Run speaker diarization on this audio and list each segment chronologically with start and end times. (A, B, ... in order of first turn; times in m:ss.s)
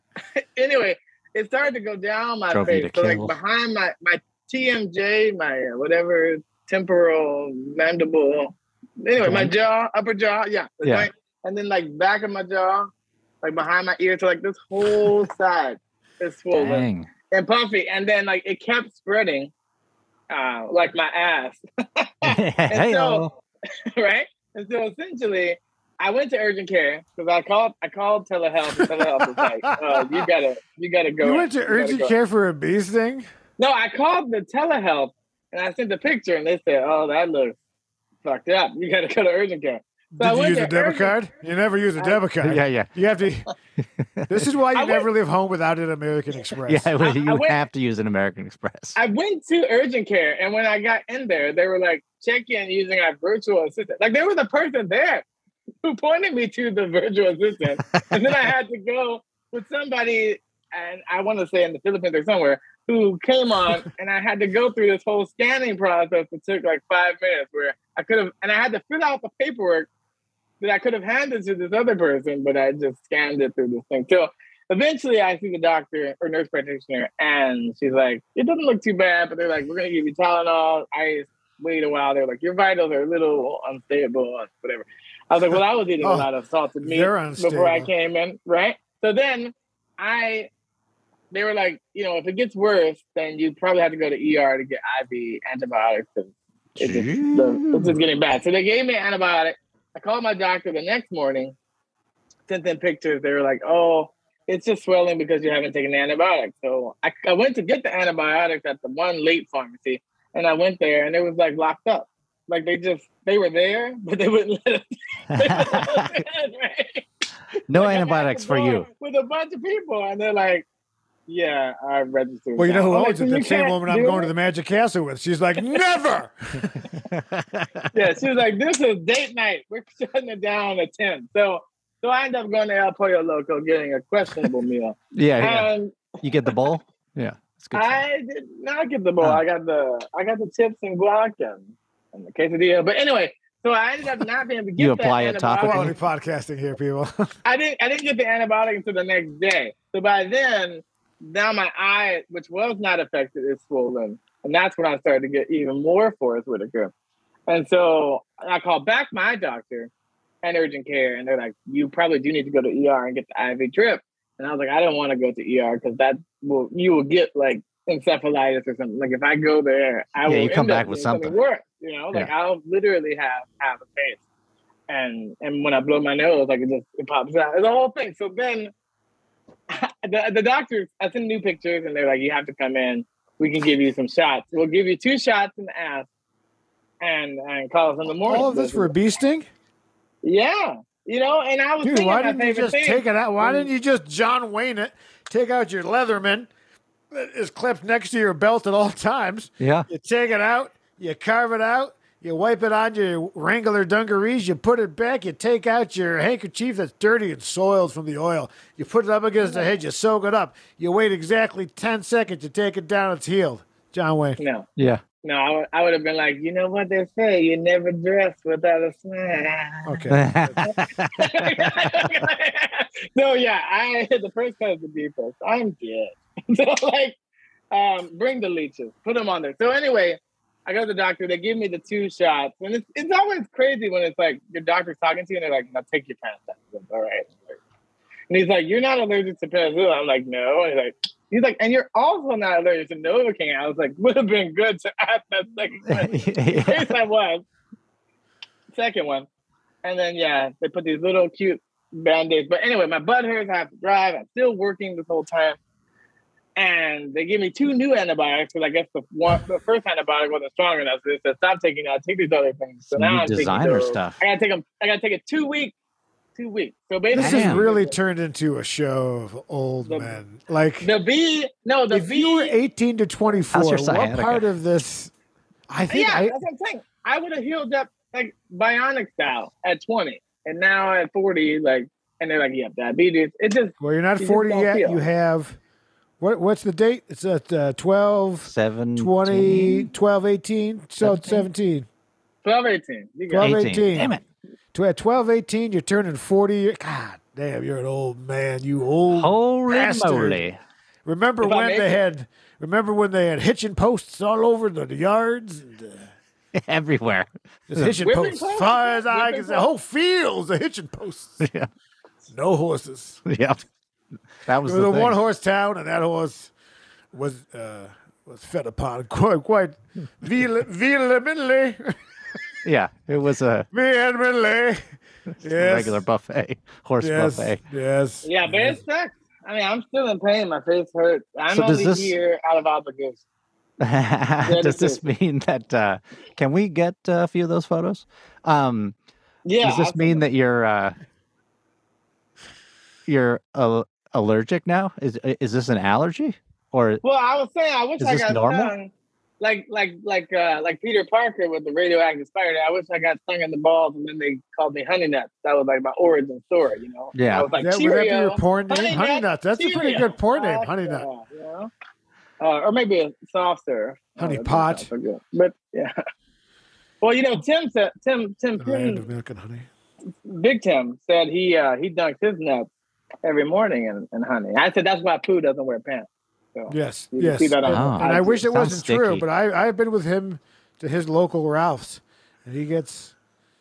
0:00.4-0:12.9 A
0:02.5-0:03.4 B
0:09.2-0:09.5 B
0:10.8-0:11.1 B
0:13.4-0:19.5 A
0:16.5-0:17.1 B
0:20.3-0:23.3 A
0:22.2-0:23.3 B
0:23.9-0:32.2 A
0:28.7-0:30.3 C
0:31.2-0:33.3 C
0:33.6-0:37.6 A
0:38.2-0:41.2 A
0:40.1-0:43.5 C
0:42.4-0:42.9 B
0:44.3-0:46.9 C
0:44.8-0:45.1 A
0:46.7-0:49.0 B
0:47.0-0:47.6 A
0:49.0-0:55.2 A
0:55.8-1:09.9 A
1:10.6-1:30.5 A
1:26.0-1:26.3 C
1:26.8-1:27.9 C
1:31.3-1:41.6 A
1:36.8-1:38.0 B
1:42.5-1:57.1 A
1:55.4-1:56.1 B
1:57.7-1:58.9 B
1:57.7-2:00.7 A
2:01.3-2:04.3 A
2:02.6-2:06.9 C
2:07.1-2:07.7 B
2:07.9-2:16.5 A
2:15.1-2:15.7 B
2:16.2-2:18.0 B
2:17.7-2:25.9 A
2:24.8-2:26.0 B
2:25.6-2:27.3 C
2:27.4-2:36.9 A
2:37.5-2:39.9 A
2:40.4-2:54.2 A
2:50.3-2:51.3 B
2:54.9-2:58.7 A
2:59.7-3:06.1 A
3:07.0-3:08.9 A
3:08.2-3:09.5 C
3:10.2-3:13.7 A
3:11.8-3:16.5 C
3:17.1-3:34.4 C
3:19.6-3:19.9 B
3:34.4-3:34.7 A
3:34.8-3:35.0 B
3:35.2-3:40.0 A
3:39.8-3:40.6 C
3:40.1-3:41.7 B
3:40.6-3:47.2 A
3:47.7-3:57.6 A
3:58.3-4:07.4 A
4:05.9-4:07.0 B
4:08.7-4:09.3 A
4:09.8-4:15.6 A
4:16.6-4:25.7 A
4:22.9-4:24.2 B
4:26.4-4:28.0 A
4:27.1-4:30.9 C
4:27.2-4:27.6 B
4:29.8-4:30.2 A
4:30.8-4:32.6 A
4:31.9-4:35.1 C
4:33.5-4:34.4 B
4:35.7-4:36.4 C
4:35.9-4:45.0 A
4:43.8-4:45.6 C
4:46.2-4:51.9 C
4:48.4-4:49.9 B
4:51.0-4:51.4 B
4:52.4-4:53.6 A
4:53.3-4:54.2 C
4:53.4-4:54.2 B
4:54.7-5:00.4 C
4:59.1-5:00.6 B
5:01.0-5:06.1 C
5:01.4-5:02.0 A
5:06.6-5:08.0 B
5:07.7-5:11.4 C
5:08.0-5:09.7 A
5:11.4-5:11.7 B
5:12.3-5:13.2 C
5:13.3-5:13.6 B
5:14.4-5:15.2 B
5:14.6-5:16.5 C
5:17.1-5:22.4 C
5:22.6-5:23.7 B
5:23.7-5:24.8 C
5:25.4-5:26.0 C
5:25.5-5:27.6 B
5:27.0-5:28.8 C
5:28.2-5:33.2 A
5:31.5-5:32.1 B
5:33.8-5:39.0 B
5:34.4-5:35.0 A
5:39.5-5:40.2 A
5:39.6-5:41.0 B
5:43.1-5:47.0 B
5:47.0-6:01.7 A
5:48.0-5:48.7 B
5:57.1-5:57.5 B
5:57.6-6:01.1 C
6:02.4-6:06.0 A
6:04.2-6:04.9 C
6:07.0-6:09.0 A
6:08.6-6:09.7 C
6:10.2-6:12.7 A
6:13.2-6:18.4 A
6:16.7-6:23.2 C
6:17.7-6:19.2 B